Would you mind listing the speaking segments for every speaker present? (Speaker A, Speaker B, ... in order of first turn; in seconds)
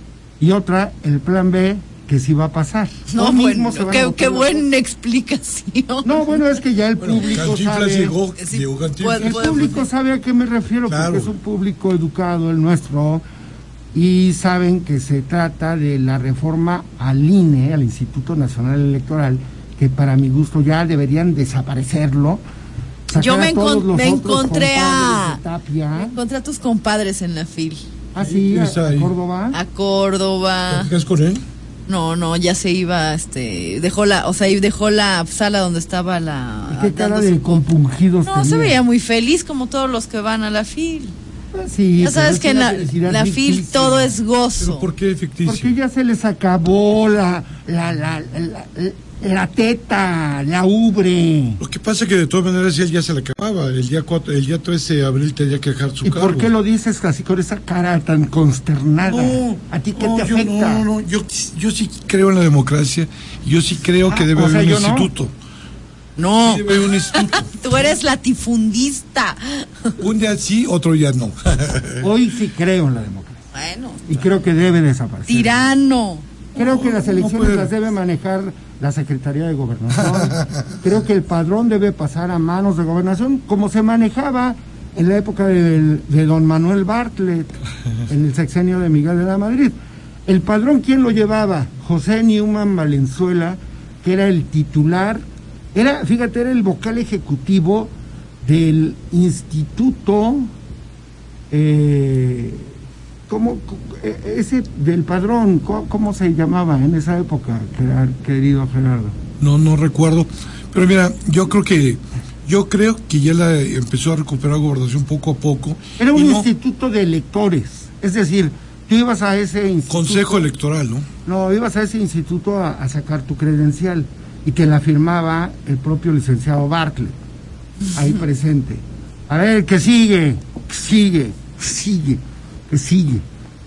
Speaker A: 0.4-4.7, 6.0-8.2, 9.2-13.2, 13.9-22.4, 23.1-26.2, 28.1-29.6, 36.7-38.8, 41.5-44.2, 45.4-51.6, 56.0-60.9, 64.1-65.1, 72.0-73.4, 74.0-75.6, 76.5-89.7, 90.2-100.5, 101.5-102.7, 103.3-109.2, 116.0-120.5, 121.2-127.2, 127.9-133.2
Speaker B: 3.1-6.4, 8.4-9.8, 23.1-25.4, 25.9-27.8, 29.5-30.9, 31.9-37.6, 38.2-41.1, 42.0-44.9, 66.2-70.0, 73.5-74.0, 75.3-76.3
Speaker C: 7.0-9.8, 10.8-11.3, 28.2-29.1, 30.7-31.4, 44.6-45.7, 51.6-56.5, 59.0-65.3, 66.4-67.7, 70.0-72.1, 76.5-77.7, 80.0-80.6, 109.4-116.5, 119.9-121.1